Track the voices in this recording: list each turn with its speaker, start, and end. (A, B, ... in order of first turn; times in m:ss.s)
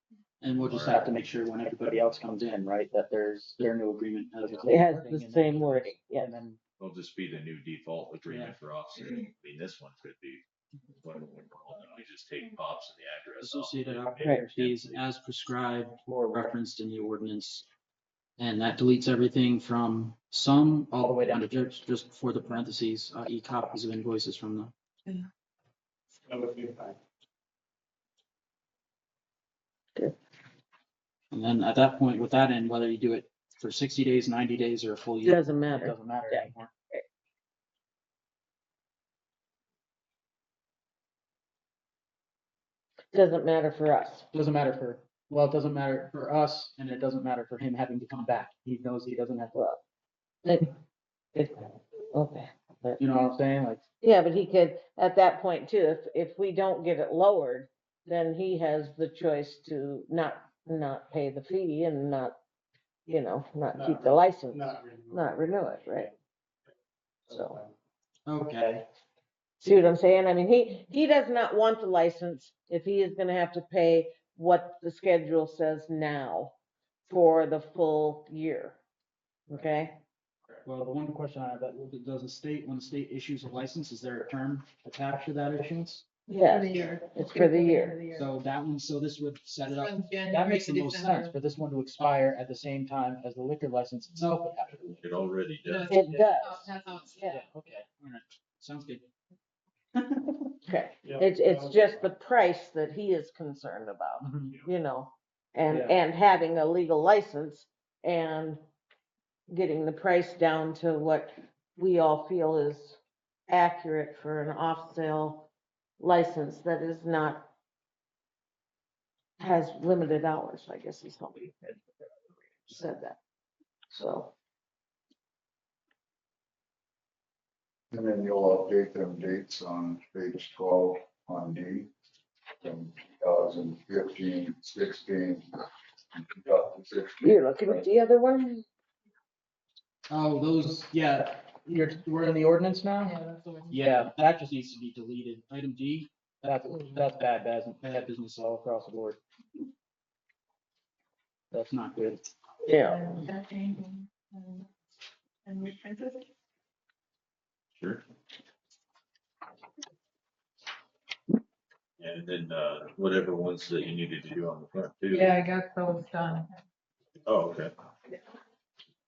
0:00.4-0:06.6 A
0:00.6-0:01.1 B
0:04.6-0:06.3 C
0:06.8-0:10.4 B
0:08.3-0:08.5 A
0:11.0-0:15.0 B
0:13.4-0:17.6 A
0:14.1-0:14.4 D
0:18.4-0:24.7 A
0:26.3-0:27.0 D
0:31.3-0:36.7 A
0:35.2-0:37.0 C
0:43.1-0:44.3 C
0:44.3-0:49.6 A
0:50.4-0:50.7 C
0:51.3-0:53.0 C
0:53.0-0:53.8 A
0:54.0-1:02.3 C
1:03.1-1:06.1 C
1:03.7-1:06.1 D
1:07.3-1:07.7 D
1:07.3-1:07.6 C
1:08.2-1:08.8 A
1:09.6-1:16.5 C
1:17.1-1:18.8 C
1:19.5-1:20.0 C
1:20.6-1:26.0 A
1:26.3-1:28.0 C
1:26.4-1:28.2 E
1:28.1-1:35.0 A
1:29.7-1:31.3 E
1:35.0-1:35.9 B
1:35.7-1:37.3 E
1:35.9-1:37.4 C
1:37.3-1:39.0 A
1:39.9-1:40.5 A
1:40.6-1:48.6 C
1:41.0-1:42.0 D
1:44.2-1:44.5 A
1:45.7-1:45.9 A
1:49.5-1:55.5 C
1:56.0-1:57.5 C
1:59.4-2:01.8 C
2:02.6-2:03.2 C
2:03.9-2:04.3 C
2:07.9-2:11.9 F
2:12.6-2:15.5 F
2:16.1-2:17.8 F
2:17.2-2:18.6 C
2:20.1-2:29.2 A
2:23.1-2:23.7 E
2:31.5-2:32.2 A
2:32.6-2:33.2 C
2:33.1-2:34.6 E
2:35.4-2:36.1 E
2:37.8-2:38.0 B
2:42.0-2:45.4 B
2:45.1-2:46.4 E
2:47.2-2:47.7 B